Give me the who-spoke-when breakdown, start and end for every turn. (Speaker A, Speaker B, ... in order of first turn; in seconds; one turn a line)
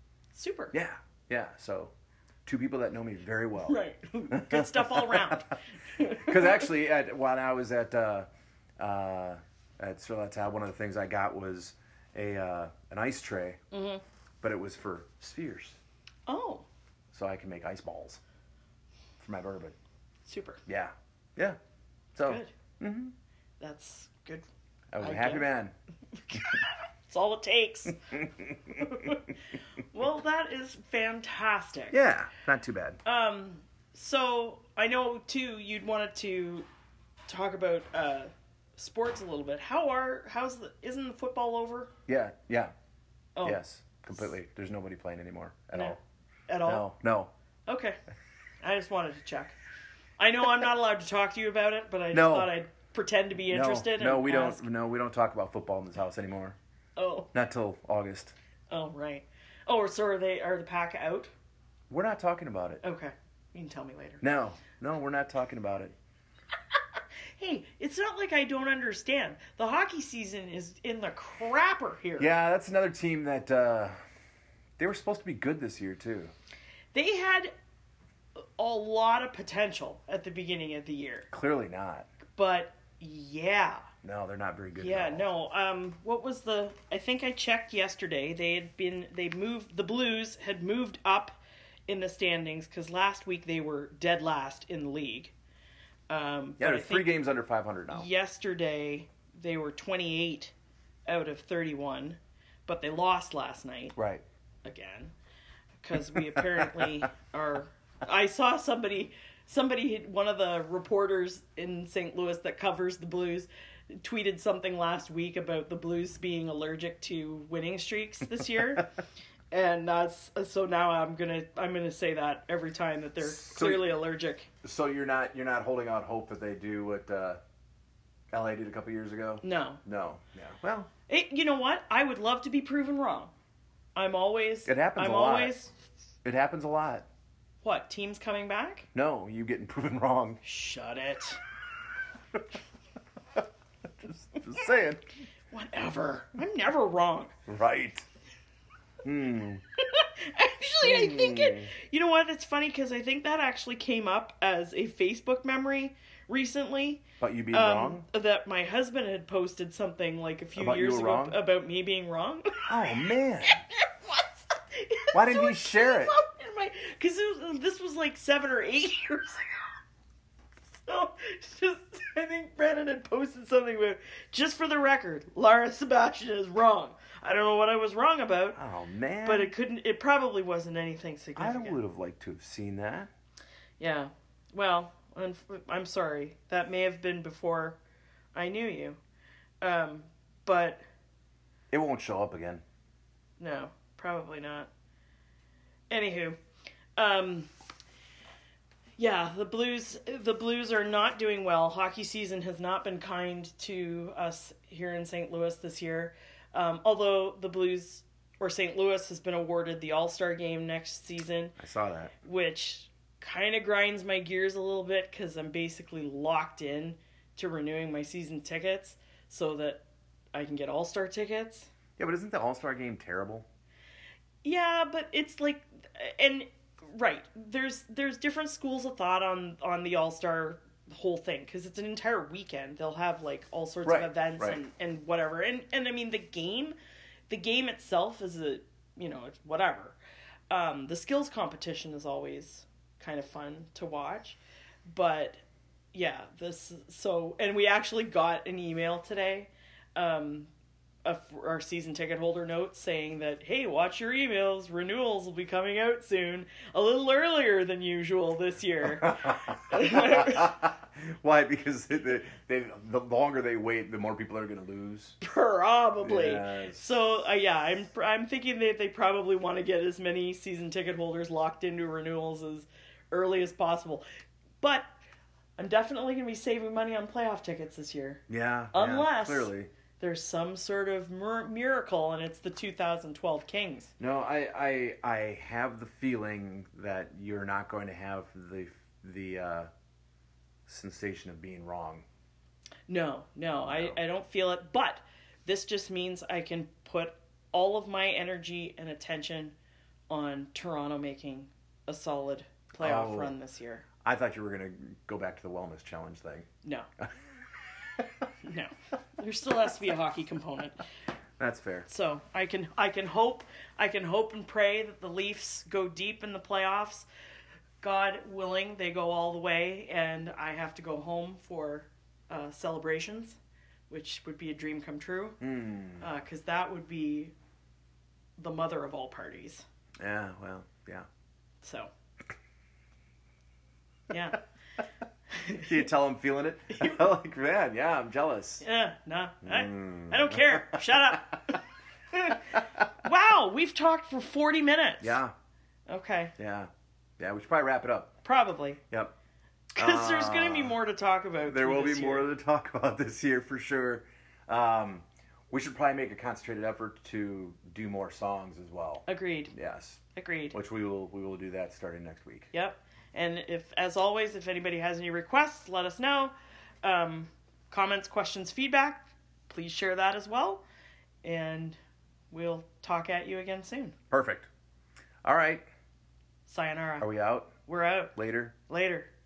Speaker A: 0.3-0.7
Speaker B: 0.7-1.9
Speaker B: 2.5-3.8
Speaker A: 3.6-6.7
Speaker B: 4.3-5.4
Speaker B: 6.1-8.3
Speaker B: 8.8-13.6
Speaker A: 13.7-14.0
Speaker B: 14.4-15.8
Speaker A: 16.3-16.6
Speaker B: 17.1-18.2
Speaker B: 19.2-19.8
Speaker A: 20.2-20.6
Speaker B: 20.7-21.6
Speaker B: 22.1-23.1
Speaker A: 22.2-22.5
Speaker A: 23.6-24.5
Speaker B: 24.9-25.7
Speaker A: 25.0-25.5
Speaker A: 26.3-28.0
Speaker B: 28.1-29.1
Speaker A: 28.8-29.3
Speaker A: 29.9-32.0
Speaker B: 31.9-33.0
Speaker A: 33.0-36.7
Speaker A: 37.3-41.9
Speaker B: 42.1-42.7
Speaker A: 43.4-43.6
Speaker B: 43.4-46.0
Speaker A: 45.7-46.9
Speaker B: 46.6-47.3
Speaker A: 47.7-48.0
Speaker A: 48.6-49.6
Speaker A: 50.2-54.6
Speaker B: 52.1-52.5
Speaker B: 53.5-56.5
Speaker A: 57.0-57.3
Speaker B: 57.3-58.3
Speaker A: 58.7-61.3
Speaker B: 61.9-62.8
Speaker A: 62.8-64.2
Speaker B: 64.2-65.9
Speaker A: 67.4-72.3
Speaker B: 72.2-74.0
Speaker B: 74.8-76.3
Speaker A: 76.9-77.5
Speaker A: 78.4-81.3
Speaker B: 81.3-82.1
Speaker A: 82.3-83.9
Speaker B: 84.0-85.3
Speaker A: 84.8-95.3
Speaker A: 96.1-97.1
Speaker B: 96.6-98.1
Speaker A: 97.9-100.5
Speaker A: 101.1-103.9
Speaker B: 104.0-104.2
Speaker A: 104.6-105.1
Speaker A: 105.8-118.9
Speaker B: 106.0-107.0
Speaker A: 119.5-124.5
Speaker B: 123.2-123.9
Speaker B: 124.6-127.4
Speaker B: 128.3-130.9
Speaker A: 129.4-129.8
Speaker A: 131.1-133.3
Speaker A: 133.9-135.7
Speaker B: 134.7-135.5
Speaker B: 136.2-137.1
Speaker A: 137.6-138.9
Speaker B: 138.9-140.4
Speaker A: 140.4-141.4
Speaker B: 144.0-145.0
Speaker A: 145.5-147.3
Speaker B: 147.5-148.1
Speaker B: 149.0-149.6
Speaker A: 149.8-162.7
Speaker B: 150.8-151.7
Speaker B: 157.2-158.0
Speaker B: 160.5-161.4
Speaker B: 162.7-163.6
Speaker A: 163.5-169.5
Speaker B: 165.1-166.2
Speaker A: 170.9-178.6
Speaker B: 178.6-179.5
Speaker A: 179.2-181.8
Speaker B: 181.3-183.1
Speaker A: 183.8-187.8
Speaker A: 188.3-189.0
Speaker A: 189.6-190.8
Speaker B: 191.7-192.6
Speaker A: 193.4-194.7
Speaker A: 195.9-196.4
Speaker A: 196.9-197.5
Speaker A: 199.0-211.6
Speaker B: 211.6-212.1
Speaker A: 212.2-221.7
Speaker B: 222.0-223.4
Speaker A: 224.4-236.7
Speaker B: 233.8-234.6
Speaker A: 237.3-240.0
Speaker A: 240.5-245.4
Speaker A: 245.9-250.5
Speaker A: 251.0-260.6
Speaker B: 258.9-265.2
Speaker A: 265.2-274.0
Speaker B: 266.0-266.9
Speaker A: 274.6-274.9
Speaker A: 275.6-278.2
Speaker B: 278.3-279.7
Speaker A: 278.7-283.9
Speaker B: 284.0-289.7
Speaker B: 290.7-292.0
Speaker A: 292.9-299.5
Speaker B: 293.6-294.0
Speaker A: 300.1-303.8
Speaker B: 302.8-303.4
Speaker B: 304.0-306.5
Speaker A: 308.4-310.8
Speaker B: 311.4-311.9
Speaker A: 311.9-317.1
Speaker A: 317.8-323.4
Speaker A: 323.9-325.4
Speaker B: 325.4-326.1
Speaker A: 326.0-327.3
Speaker A: 328.4-329.6
Speaker B: 330.0-331.1
Speaker A: 331.6-331.9
Speaker A: 334.1-334.4
Speaker A: 335.4-335.7
Speaker B: 335.5-338.6
Speaker A: 338.6-341.6
Speaker B: 339.4-341.2
Speaker A: 342.1-345.2
Speaker B: 345.0-345.3
Speaker A: 345.9-346.3
Speaker B: 346.4-348.2
Speaker A: 348.2-348.8
Speaker A: 349.7-352.3
Speaker B: 349.8-350.8
Speaker B: 351.5-362.5
Speaker A: 359.1-359.5
Speaker A: 360.1-360.6
Speaker A: 362.5-370.6
Speaker A: 371.2-371.8
Speaker A: 372.3-373.9
Speaker B: 374.1-374.5
Speaker B: 375.2-375.6
Speaker A: 376.4-377.1
Speaker B: 377.0-377.5
Speaker A: 377.6-378.1
Speaker B: 378.1-378.5
Speaker A: 378.7-379.1